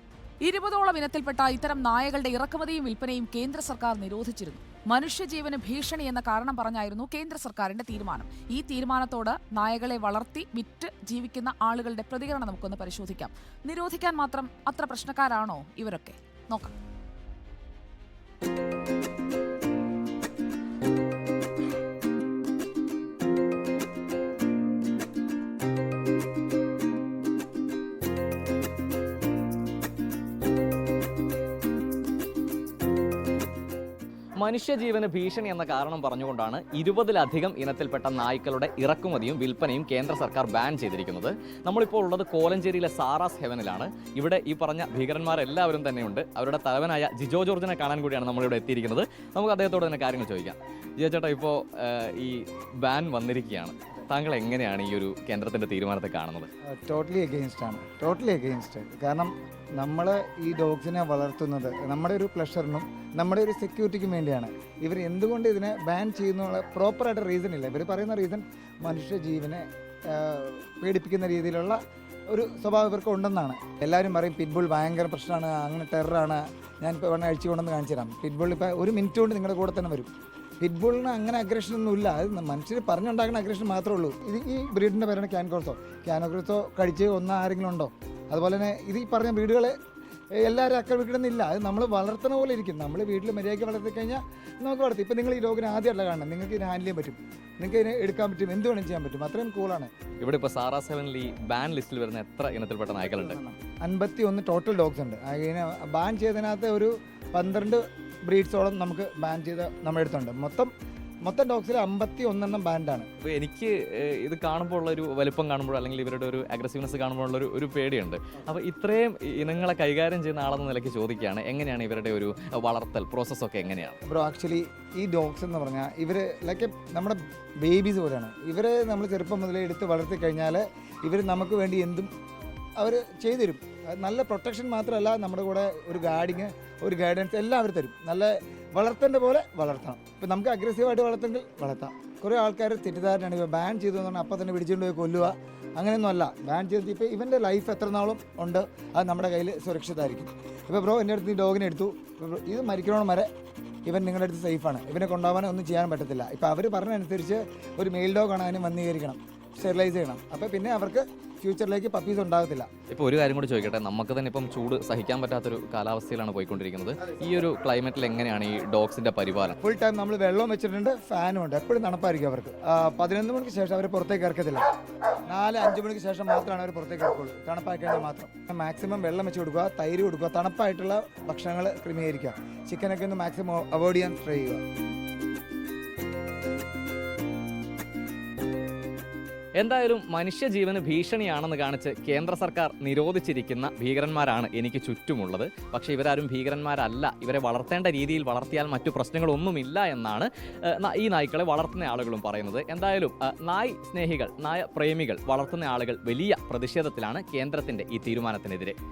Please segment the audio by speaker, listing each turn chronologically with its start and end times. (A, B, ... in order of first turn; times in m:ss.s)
0:00.4-0:16.7 A
0:34.4-0:56.5 B
0:56.6-1:11.8 C
1:12.3-1:29.8 C
1:30.4-1:39.9 C
1:40.2-1:43.4 B
1:43.0-1:50.7 C
1:51.2-1:53.1 C
1:53.2-2:04.0 B
2:04.0-2:12.1 C
2:12.8-2:33.3 C
2:33.8-2:42.7 C
2:42.9-2:49.6 B
2:49.6-2:54.6 C
2:55.3-3:04.6 C
3:09.6-3:28.8 B